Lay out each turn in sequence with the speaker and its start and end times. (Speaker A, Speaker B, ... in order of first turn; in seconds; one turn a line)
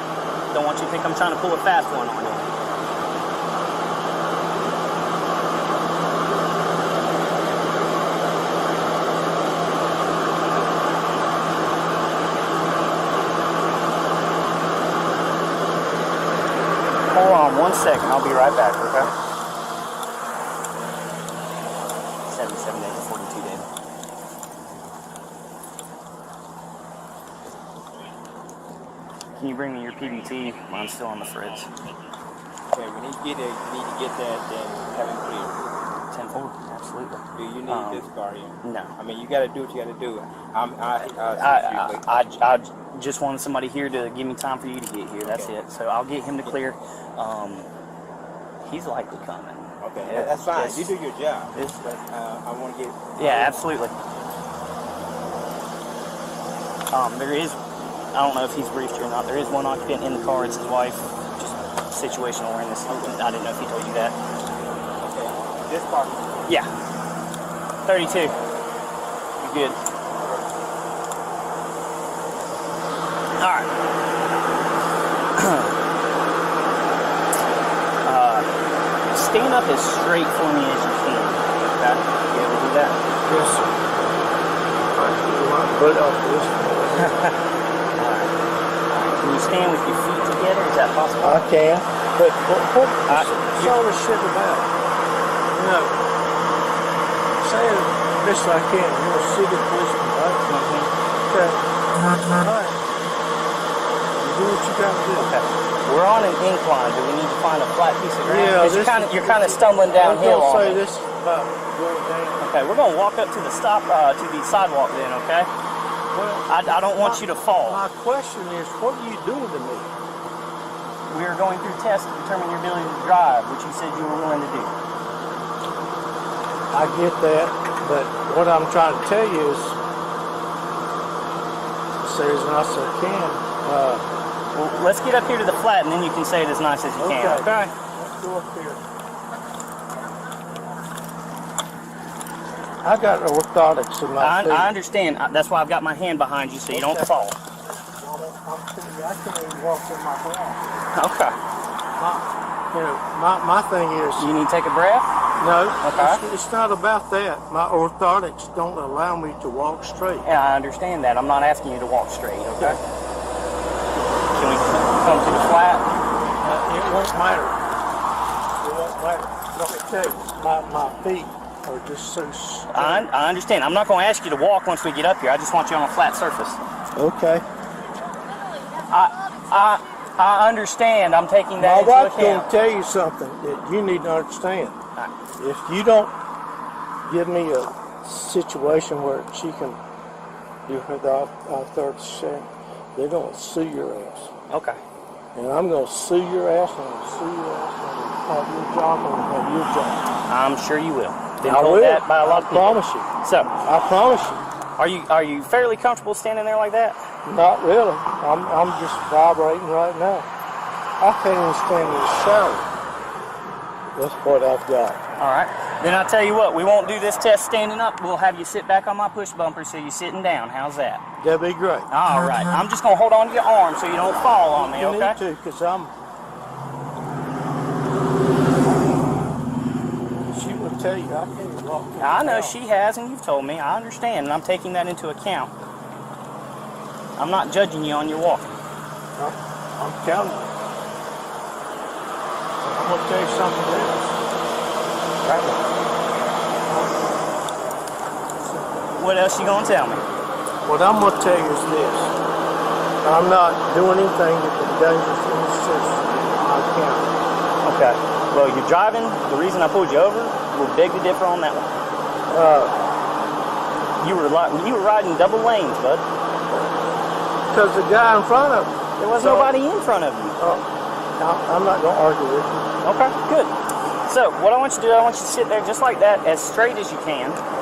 Speaker A: 0.5-2.5
Speaker A: 17.1-19.1
Speaker A: 22.3-23.6
Speaker A: 29.4-31.7
Speaker B: 32.7-35.6
Speaker A: 36.1-38.0
Speaker B: 37.4-42.0
Speaker A: 38.6-39.0
Speaker A: 41.2-47.7
Speaker B: 45.2-45.5
Speaker A: 48.6-50.9
Speaker B: 49.8-53.6
Speaker A: 51.5-51.8
Speaker A: 53.2-54.0
Speaker A: 56.9-64.2
Speaker B: 62.9-63.2
Speaker B: 65.0-66.4
Speaker A: 67.9-68.3
Speaker A: 69.4-69.8
Speaker A: 73.4-73.7
Speaker A: 75.4-75.7
Speaker A: 78.0-78.5
Speaker A: 79.1-83.0
Speaker C: 83.3-83.8
Speaker C: 84.9-87.2
Speaker A: 87.0-87.3
Speaker A: 88.0-88.3
Speaker A: 88.9-91.5
Speaker C: 91.2-94.7
Speaker A: 93.1-93.8
Speaker C: 95.5-96.0
Speaker C: 97.4-100.4
Speaker A: 100.5-100.9
Speaker C: 101.3-101.6
Speaker C: 102.3-102.8
Speaker C: 104.2-105.4
Speaker A: 105.2-110.8
Speaker C: 108.3-112.5
Speaker A: 112.4-115.5
Speaker C: 116.1-119.9
Speaker A: 116.5-117.8
Speaker A: 121.1-124.7
Speaker C: 126.7-129.8
Speaker C: 132.0-134.0
Speaker A: 134.5-137.7
Speaker C: 136.9-138.8
Speaker C: 142.8-144.7
Speaker A: 144.2-147.3
Speaker C: 146.7-147.1
Speaker C: 148.0-150.7
Speaker A: 150.9-151.3
Speaker C: 152.0-154.3
Speaker A: 154.2-155.1
Speaker C: 155.3-160.2
Speaker A: 155.8-156.2
Speaker A: 160.2-162.8
Speaker A: 164.3-165.8
Speaker C: 166.4-167.6
Speaker C: 168.6-173.1
Speaker A: 172.7-176.6
Speaker C: 176.9-177.4
Speaker A: 178.9-182.5
Speaker C: 181.6-184.8
Speaker C: 185.4-186.1
Speaker C: 187.1-189.8
Speaker C: 190.7-194.3
Speaker A: 194.5-194.8
Speaker C: 195.3-200.0
Speaker A: 200.3-203.6
Speaker C: 201.4-203.1
Speaker C: 203.6-204.4
Speaker A: 204.8-207.0
Speaker C: 207.2-210.3
Speaker C: 211.0-212.7
Speaker C: 213.9-215.0
Speaker A: 215.2-221.0
Speaker C: 221.2-221.9
Speaker A: 221.9-225.2
Speaker C: 224.5-225.9
Speaker C: 230.3-232.6
Speaker A: 232.0-235.5
Speaker A: 237.2-238.5
Speaker C: 239.2-240.5
Speaker C: 242.6-244.0
Speaker A: 245.2-245.6
Speaker C: 246.7-247.0
Speaker C: 248.4-248.9
Speaker A: 248.9-250.1
Speaker C: 250.7-252.2
Speaker C: 253.0-257.1
Speaker A: 257.6-261.7
Speaker C: 262.3-262.8
Speaker A: 264.0-266.1
Speaker C: 267.5-269.6
Speaker A: 269.0-270.4
Speaker C: 270.4-270.6
Speaker C: 271.2-272.7
Speaker A: 272.8-273.5
Speaker A: 274.1-277.4